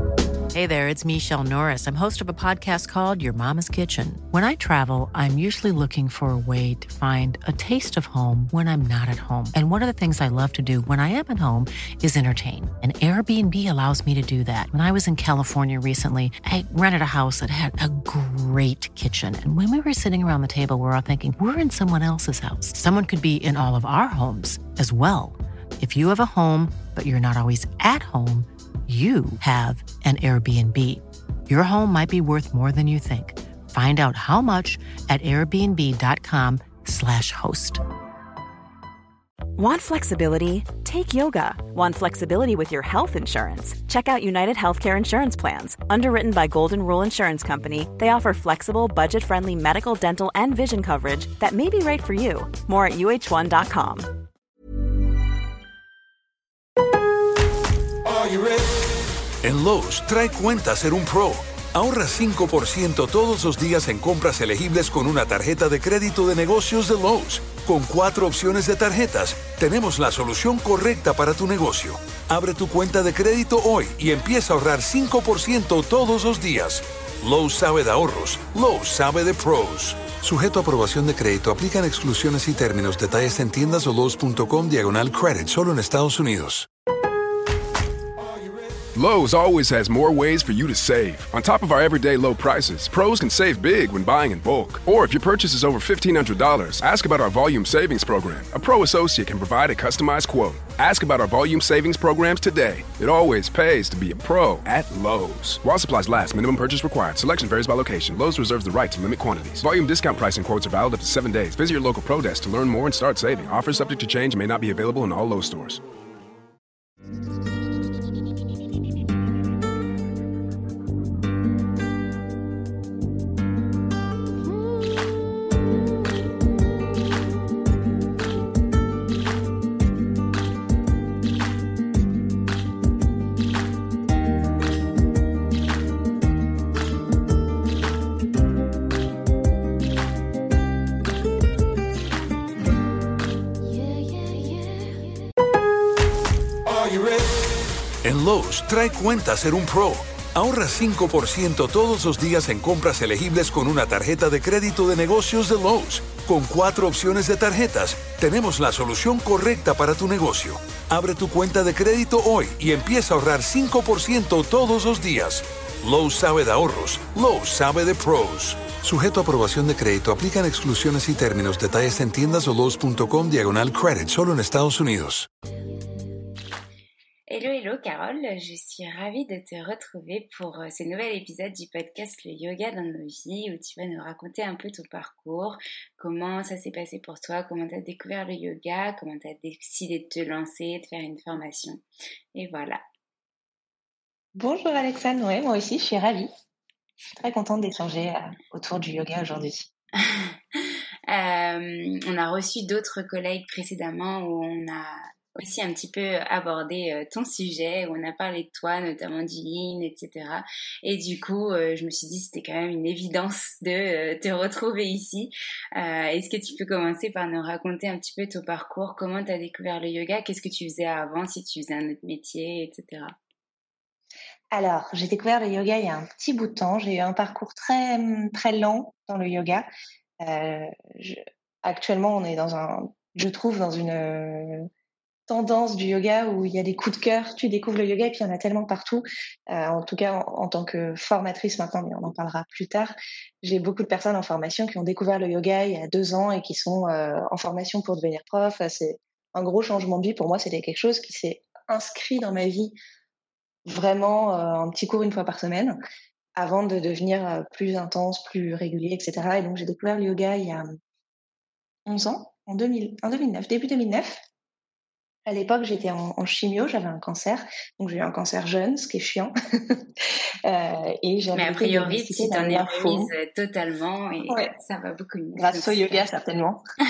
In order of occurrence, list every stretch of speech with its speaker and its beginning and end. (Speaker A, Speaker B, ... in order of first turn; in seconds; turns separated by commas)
Speaker A: 0.5-37.8, Speaker B: 39.5-54.2, Speaker C: 58.1-58.7, Speaker C: 59.4-86.7, Speaker D: 88.9-115.8, Speaker C: 146.7-147.3, Speaker C: 148.0-175.3, Speaker E: 177.3-191.8, Speaker E: 192.3-192.8, Speaker F: 194.3-196.3, Speaker F: 197.2-199.7, Speaker E: 200.0-223.2, Speaker F: 224.5-229.7, Speaker F: 230.2-234.7, Speaker F: 235.3-252.8, Speaker F: 253.6-255.8, Speaker F: 256.4-260.7, Speaker F: 261.9-264.2, Speaker F: 265.2-273.1, Speaker E: 271.3-276.1, Speaker F: 274.2-274.5, Speaker F: 275.3-276.6